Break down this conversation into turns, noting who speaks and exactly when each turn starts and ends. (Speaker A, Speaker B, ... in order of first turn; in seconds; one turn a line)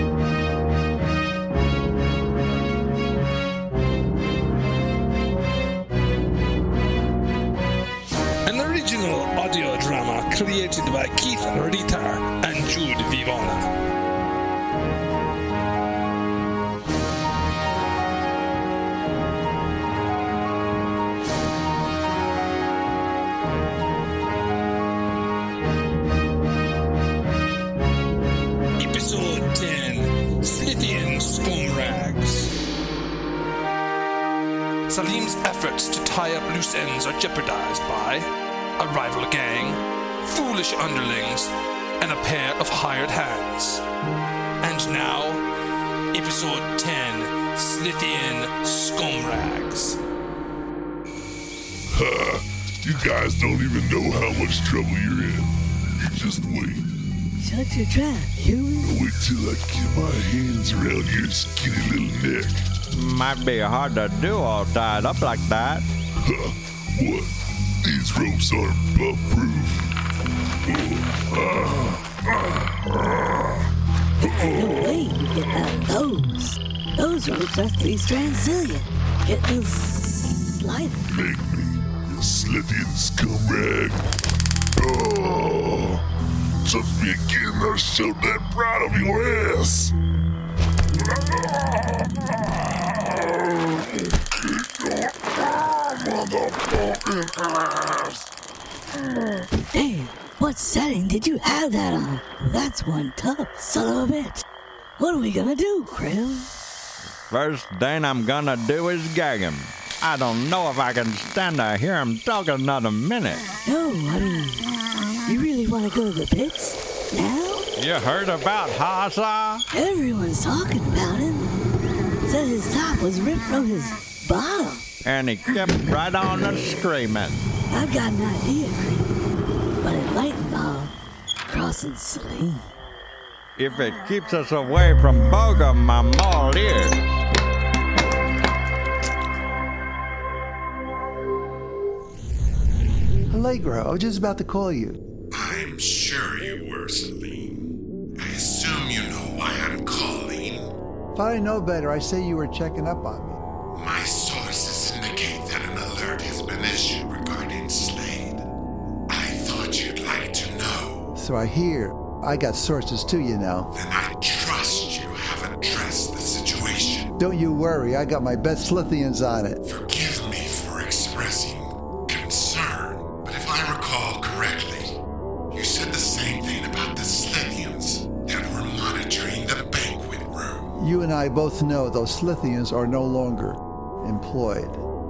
Speaker A: 8.4-13.7
Speaker A: 28.8-32.5
Speaker A: 34.9-38.2
Speaker A: 38.8-43.8
Speaker A: 44.6-45.4
Speaker A: 46.1-50.0
Speaker B: 51.9-56.9
Speaker C: 57.4-58.9
Speaker B: 58.8-62.7
Speaker D: 62.9-65.9
Speaker B: 66.2-69.9
Speaker B: 70.7-73.7
Speaker C: 74.2-81.0
Speaker B: 74.2-74.9
Speaker B: 81.1-84.1
Speaker B: 84.8-86.0
Speaker B: 86.6-90.0
Speaker B: 91.1-98.3
Speaker C: 99.7-104.5
Speaker C: 105.0-106.5
Speaker D: 107.3-113.5
Speaker C: 113.6-114.7
Speaker C: 115.3-117.7
Speaker D: 117.8-119.6
Speaker C: 119.7-121.5
Speaker C: 122.3-124.8
Speaker D: 125.0-127.4
Speaker C: 127.7-129.1
Speaker C: 129.8-130.9
Speaker C: 131.4-132.7
Speaker D: 133.6-137.0
Speaker E: 143.3-145.0
Speaker F: 145.3-150.7
Speaker E: 151.1-153.4
Speaker F: 153.7-158.5
Speaker F: 159.1-161.1
Speaker E: 161.1-163.7
Speaker F: 163.7-167.1
Speaker E: 167.2-169.6
Speaker F: 169.7-175.0
Speaker F: 175.5-180.7
Speaker E: 180.7-184.8